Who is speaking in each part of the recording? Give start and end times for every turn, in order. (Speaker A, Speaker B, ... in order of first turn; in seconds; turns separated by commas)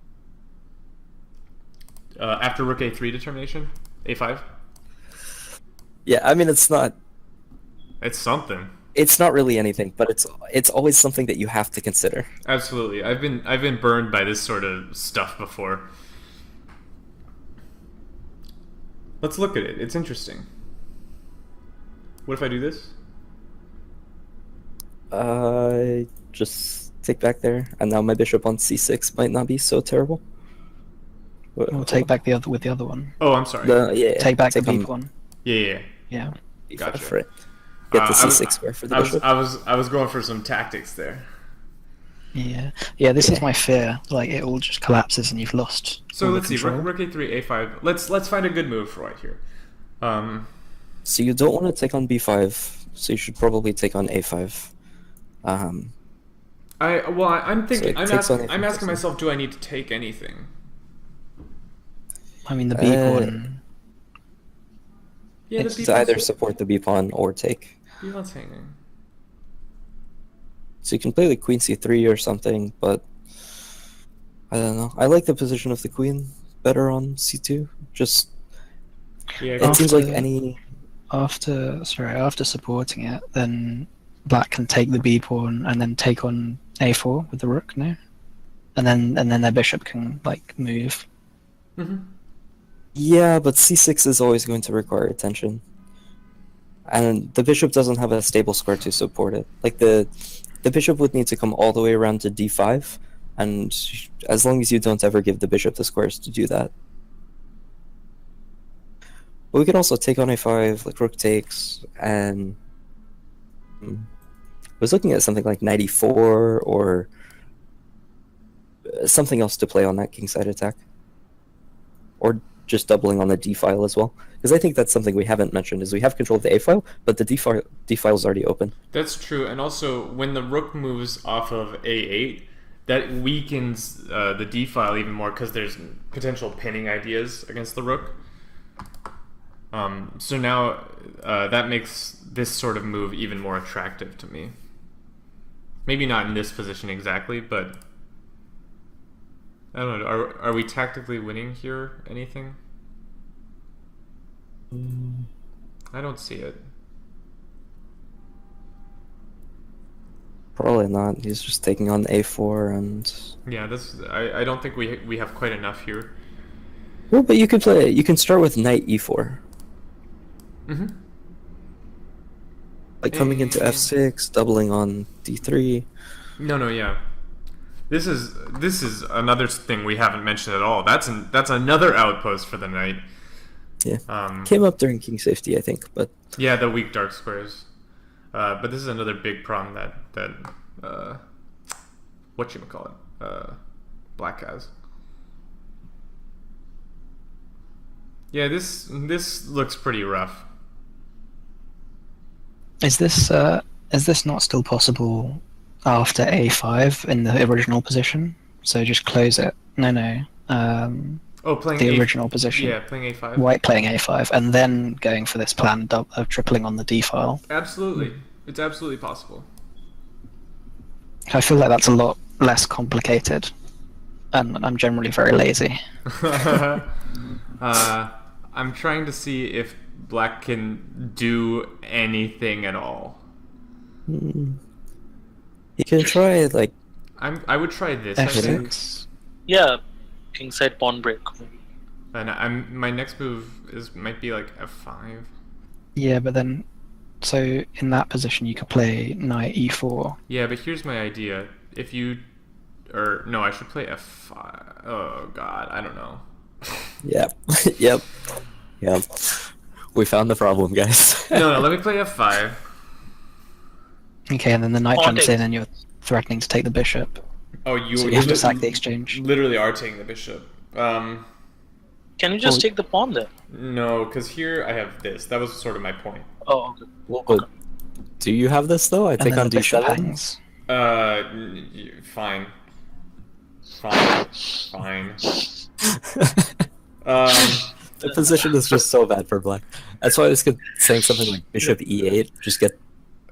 Speaker A: 2.2-4.4, Speaker B: 6.0-7.0, Speaker A: 8.0-8.7, Speaker B: 8.9-12.3, Speaker A: 12.4-15.9, Speaker A: 19.2-20.4, Speaker A: 22.2-22.9, Speaker B: 25.1-30.2, Speaker B: 31.6-32.1, Speaker C: 31.7-33.1, Speaker A: 33.2-33.8, Speaker B: 33.6-34.9, Speaker C: 34.2-35.1, Speaker A: 35.4-35.9, Speaker B: 36.7-37.3, Speaker A: 36.7-37.2, Speaker A: 37.9-41.2, Speaker B: 37.9-39.2, Speaker C: 42.3-46.9, Speaker A: 46.1-49.4, Speaker A: 50.0-50.5, Speaker B: 51.0-54.7, Speaker B: 55.4-55.9, Speaker A: 56.8-60.5, Speaker B: 57.7-59.0, Speaker C: 62.5-63.6, Speaker B: 62.7-63.4, Speaker A: 65.5-66.3, Speaker B: 65.6-67.7, Speaker A: 68.0-68.7, Speaker B: 70.8-73.0, Speaker B: 74.5-78.3, Speaker A: 79.4-80.0, Speaker B: 79.6-80.6, Speaker C: 79.6-80.2, Speaker C: 81.1-88.0, Speaker C: 88.8-91.1, Speaker A: 91.8-92.1, Speaker B: 92.9-95.6, Speaker B: 96.9-100.1, Speaker B: 100.6-106.7, Speaker B: 109.5-112.6, Speaker B: 113.8-114.1, Speaker B: 114.8-117.1, Speaker B: 118.8-120.8, Speaker B: 122.2-128.7, Speaker A: 128.9-138.2, Speaker A: 139.7-144.5, Speaker A: 145.8-147.8, Speaker A: 149.7-152.6, Speaker B: 154.7-155.3, Speaker A: 155.9-156.6, Speaker B: 160.6-163.3, Speaker A: 163.4-166.1, Speaker B: 167.1-169.4, Speaker A: 170.7-171.0, Speaker B: 173.0-175.9, Speaker A: 173.1-173.9, Speaker A: 176.4-177.0, Speaker A: 177.9-183.0, Speaker B: 183.8-186.1, Speaker A: 184.1-184.5, Speaker A: 186.3-187.7, Speaker A: 188.3-191.2, Speaker A: 192.3-193.6, Speaker A: 194.2-194.7, Speaker A: 198.3-200.5, Speaker C: 202.8-211.2, Speaker A: 211.4-213.5, Speaker C: 211.8-212.8, Speaker C: 213.3-217.4, Speaker A: 217.5-219.5, Speaker C: 221.3-223.5, Speaker C: 224.3-225.8, Speaker A: 226.1-226.9, Speaker A: 227.6-233.2, Speaker B: 234.1-234.6, Speaker B: 235.8-236.7, Speaker A: 237.2-238.8, Speaker C: 238.2-239.1, Speaker B: 238.3-238.6, Speaker D: 239.5-239.8, Speaker D: 240.3-241.5, Speaker A: 242.1-245.3, Speaker C: 245.9-246.6, Speaker C: 247.2-250.2, Speaker A: 250.3-252.2, Speaker A: 252.9-256.2, Speaker B: 257.0-258.1, Speaker B: 258.8-261.7, Speaker A: 261.3-262.6, Speaker C: 264.3-267.2, Speaker D: 264.9-265.4, Speaker A: 267.6-271.2, Speaker C: 267.9-269.2, Speaker D: 272.2-273.3, Speaker A: 273.5-276.3, Speaker D: 276.4-276.9, Speaker B: 277.1-277.4, Speaker B: 278.2-280.1, Speaker C: 279.2-280.4, Speaker A: 280.7-282.5, Speaker A: 283.8-285.3, Speaker B: 285.9-286.3, Speaker A: 287.0-287.7, Speaker B: 288.0-292.8